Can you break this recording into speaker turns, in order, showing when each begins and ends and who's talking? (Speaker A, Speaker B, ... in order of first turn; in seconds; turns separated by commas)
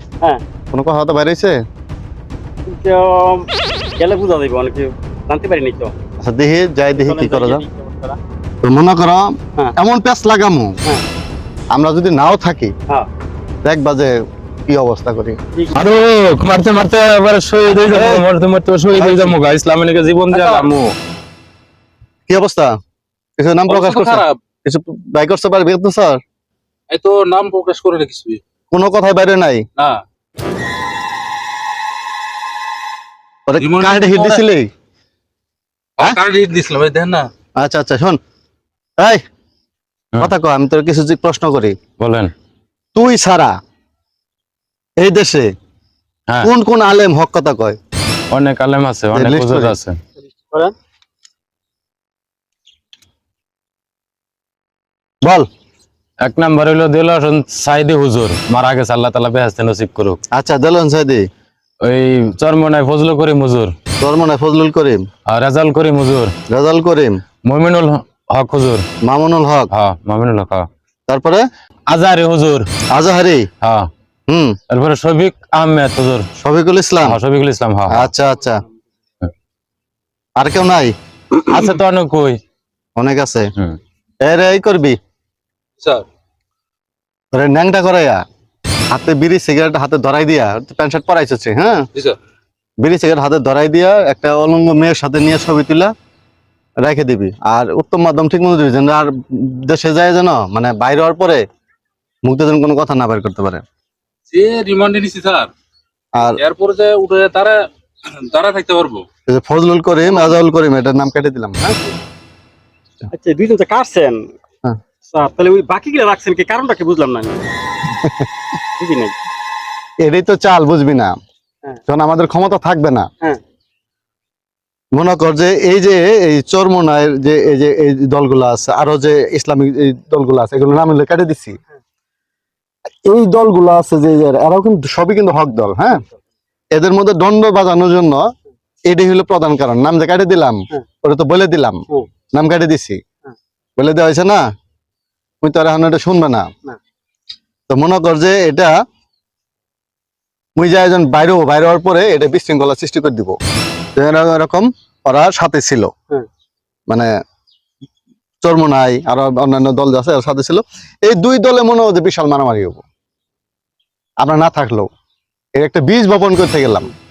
Speaker A: 0.7-1.5, Speaker B: 2.7-3.5, Speaker B: 4.0-5.9, Speaker A: 6.2-7.6, Speaker B: 6.9-8.2, Speaker A: 8.6-10.8, Speaker A: 11.7-12.7, Speaker A: 13.6-14.1, Speaker A: 14.7-15.4, Speaker C: 15.7-20.9, Speaker A: 17.9-18.2, Speaker A: 19.0-19.3, Speaker D: 20.3-20.6, Speaker A: 22.3-22.7, Speaker A: 23.4-26.2, Speaker D: 23.7-24.4, Speaker D: 26.9-28.4, Speaker A: 28.7-29.6, Speaker A: 33.5-34.7, Speaker D: 33.6-34.4, Speaker D: 36.0-37.3, Speaker A: 37.6-38.2, Speaker A: 40.2-41.7, Speaker C: 42.0-42.3, Speaker A: 42.9-43.5, Speaker A: 45.0-45.5, Speaker A: 46.4-47.8, Speaker C: 48.3-50.0, Speaker A: 49.1-49.8, Speaker B: 50.2-50.7, Speaker C: 56.2-60.2, Speaker A: 60.3-61.2, Speaker C: 61.8-63.7, Speaker A: 64.0-65.0, Speaker C: 65.3-66.3, Speaker A: 66.5-67.2, Speaker C: 67.5-68.8, Speaker A: 69.0-69.7, Speaker C: 69.7-70.7, Speaker A: 71.1-71.4, Speaker C: 71.9-72.7, Speaker A: 72.9-73.5, Speaker C: 73.6-73.9, Speaker A: 74.3-74.6, Speaker C: 74.7-76.3, Speaker A: 76.4-77.2, Speaker C: 77.0-78.1, Speaker A: 77.9-78.6, Speaker A: 80.4-80.9, Speaker C: 81.4-82.4, Speaker A: 83.0-83.5, Speaker A: 84.2-85.0, Speaker D: 85.8-86.0, Speaker A: 87.3-88.2, Speaker A: 88.9-91.8, Speaker A: 92.8-95.9, Speaker A: 96.8-101.4, Speaker A: 102.2-103.6, Speaker D: 104.3-105.5, Speaker A: 106.1-106.4, Speaker D: 106.2-109.0, Speaker A: 109.3-111.8, Speaker B: 110.1-110.3, Speaker B: 113.1-114.3, Speaker B: 115.1-117.4, Speaker A: 118.0-118.3, Speaker B: 118.8-119.2, Speaker A: 120.0-121.1, Speaker A: 121.9-123.1, Speaker A: 124.9-131.6, Speaker A: 133.0-136.0, Speaker A: 136.7-138.2, Speaker A: 138.9-143.0, Speaker A: 143.8-144.4, Speaker A: 145.4-146.5, Speaker A: 147.7-148.7, Speaker A: 150.6-153.3, Speaker A: 153.9-155.9, Speaker A: 158.4-162.8, Speaker A: 164.2-164.9, Speaker A: 165.6-166.9